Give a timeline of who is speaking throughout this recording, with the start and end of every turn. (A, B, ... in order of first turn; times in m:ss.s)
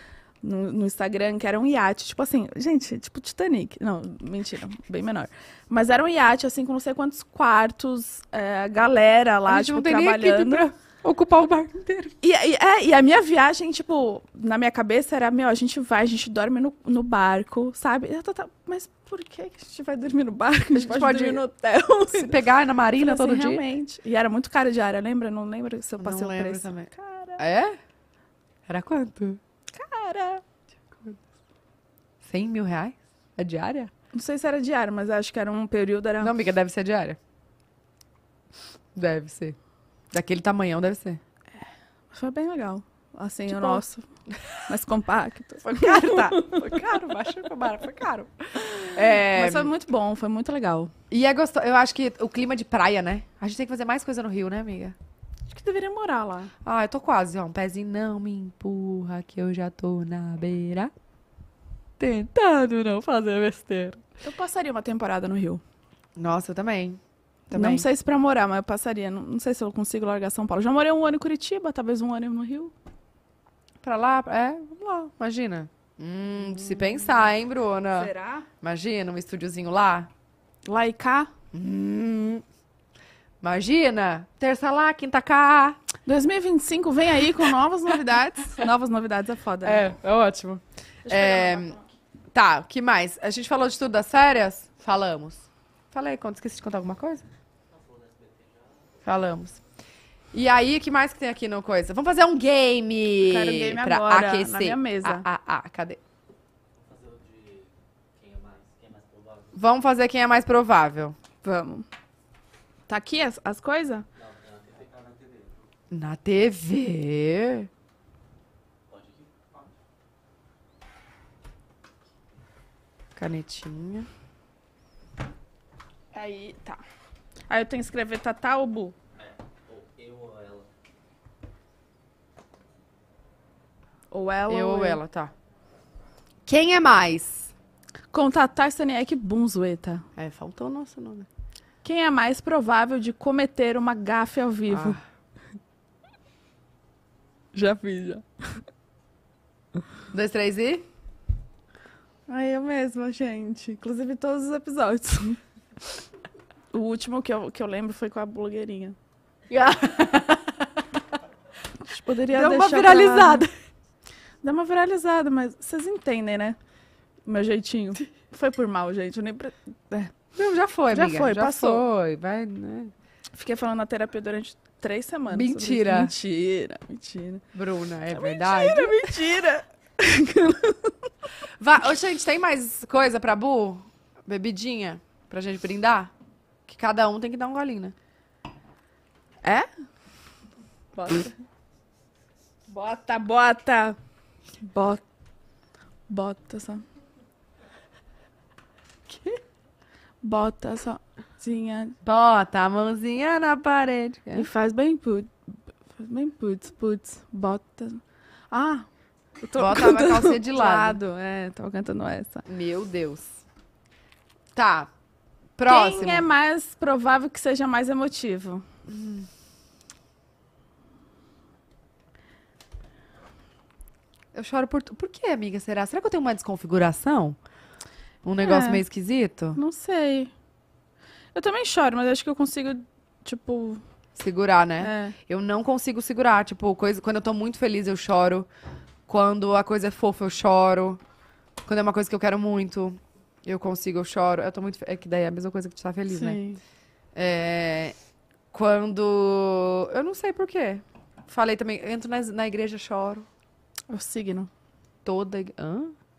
0:00.4-0:10.7 A
0:09.5-0:12.1 B
0:12.2-0:22.4 A
0:20.7-0:21.4 B
0:22.1-0:23.6 B
0:23.0-0:27.4 A
0:26.0-0:27.8 B
0:28.7-0:29.4 B
0:29.7-0:30.4 A
0:32.2-0:33.9 B
0:34.1-0:36.3 A
0:36.2-0:37.2 B
0:39.0-0:39.6 B
0:40.1-0:41.2 B
0:42.1-0:44.0 A
0:43.5-0:43.8 B
0:44.7-0:46.6 A
0:45.6-0:49.7 B
0:48.6-0:50.9 A
0:51.1-0:55.0 B
0:55.5-0:56.5 A
0:56.6-1:00.9 B
1:02.0-1:04.0 B
1:04.2-1:05.6 A
1:06.2-1:07.9 B
1:07.5-1:12.7 A
1:13.8-1:20.1 B
1:17.9-1:18.5 A
1:20.7-1:21.3 A
1:21.5-1:22.4 B
1:23.4-1:25.8 B
1:26.1-1:29.9 A
1:29.6-1:31.8 B
1:31.0-1:31.8 A
1:32.3-1:37.2 B
1:37.7-1:39.6 C
1:39.0-1:39.6 B
1:40.3-1:46.0 B
1:43.2-1:45.2 A
1:46.8-1:49.6 C
1:49.6-1:51.2 B
1:51.4-1:51.9 A
1:52.9-1:54.1 A
1:54.2-1:55.7 C
1:55.9-1:57.7 B
1:58.9-1:59.8 C
2:03.2-2:04.1 B
2:06.1-2:06.8 A
2:07.5-2:09.0 A
2:09.2-2:10.7 C
2:14.1-2:15.0 A
2:14.5-2:15.3 B
2:16.5-2:17.5 B
2:18.1-2:20.0 A
2:20.2-2:21.3 B
2:21.8-2:25.0 A
2:24.7-2:25.0 B
2:27.5-2:28.2 A
2:30.1-2:30.9 B
2:32.3-2:35.4 A
2:36.7-2:39.0 A
2:39.5-2:40.6 B
2:41.8-2:43.5 A
2:42.3-2:43.5 B
2:44.4-2:46.6 A
2:47.3-2:50.1 A
2:50.3-2:52.9 B
2:50.9-2:51.8 A
2:53.3-2:57.4 A
2:55.3-2:56.1 B
2:57.5-2:59.2 B
2:58.1-3:01.1 A
3:01.6-3:06.1 B
3:06.7-3:07.9 B
3:10.9-3:11.3 A
3:12.7-3:14.0 A
3:14.6-3:15.0 A
3:16.1-3:16.8 A
3:19.1-3:19.4 B
3:20.2-3:22.0 A
3:22.0-3:24.5 B
3:24.4-3:25.3 A
3:26.0-3:28.9 A
3:29.4-3:32.5 A
3:29.6-3:31.0 B
3:32.5-3:33.4 B
3:34.6-3:34.9 B
3:35.6-3:36.3 B
3:35.7-3:38.6 A
3:38.9-3:39.3 B
3:44.3-3:47.4 B
3:48.2-3:49.6 B
3:48.4-3:48.8 A
3:49.6-3:50.3 A
3:51.3-3:53.8 A
3:54.2-3:58.5 B
3:54.8-3:55.2 A
3:59.1-4:01.0 B
4:01.6-4:06.4 B
4:06.1-4:06.6 A
4:07.2-4:08.0 B
4:08.5-4:13.3 B
4:13.9-4:14.5 A
4:15.0-4:16.0 B